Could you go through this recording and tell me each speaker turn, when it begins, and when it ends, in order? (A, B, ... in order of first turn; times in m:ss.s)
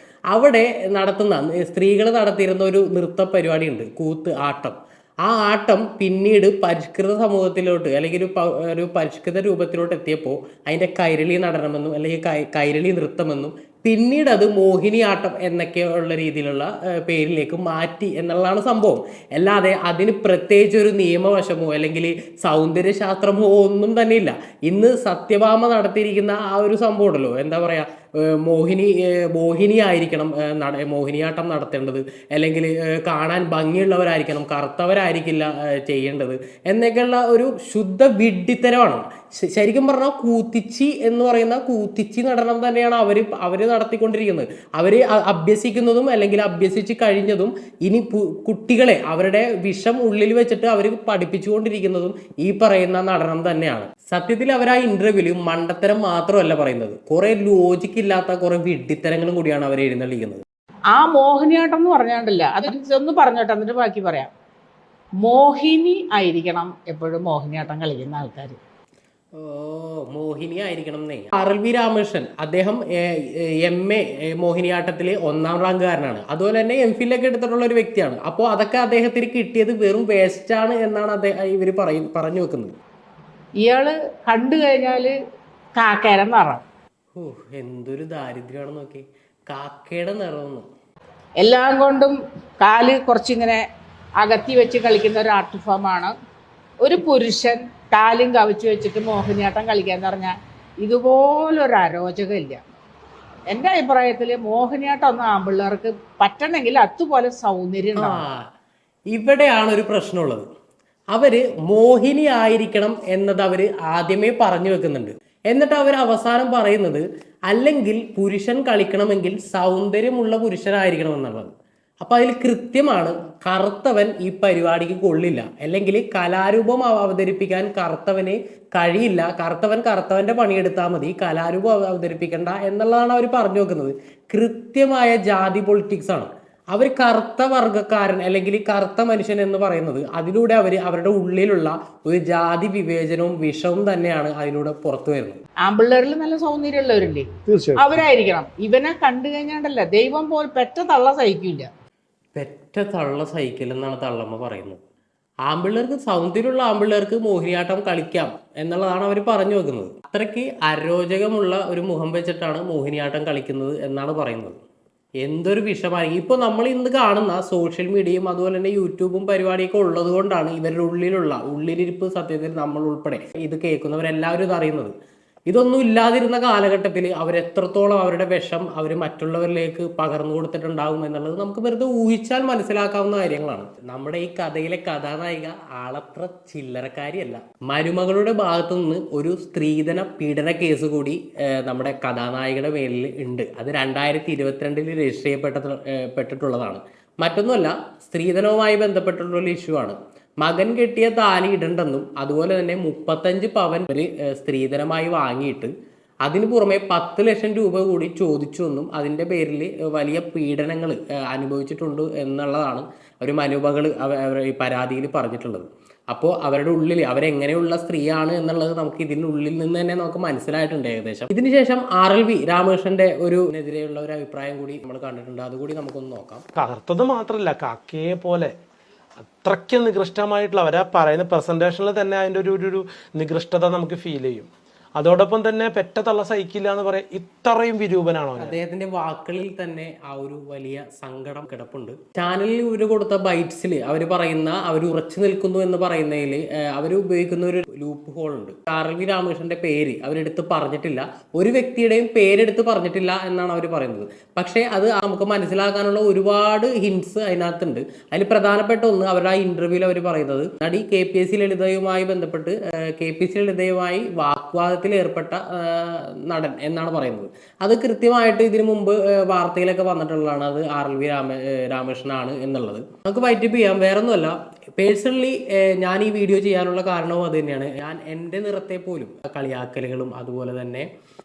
0:00.3-1:00.4 A
1:00.9-1:04.3 B
1:05.2-1:08.6 B
1:09.4-1:22.7 A
1:23.6-1:25.1 B
1:25.7-1:26.6 B
1:27.1-1:30.6 A
1:31.4-1:33.6 B
1:34.2-1:36.1 B
1:36.8-1:42.6 B
1:43.5-1:48.2 B
1:48.0-1:48.5 A
1:49.1-1:50.4 A
1:51.1-2:01.5 A
2:02.0-2:25.4 A
2:25.6-2:31.7 B
2:32.3-2:34.8 A
2:35.4-2:44.6 A
2:45.2-2:54.9 A
2:55.5-3:25.7 A
3:26.2-3:46.4 A
3:46.6-3:48.5 C
3:49.2-3:58.5 C
3:58.4-4:40.9 A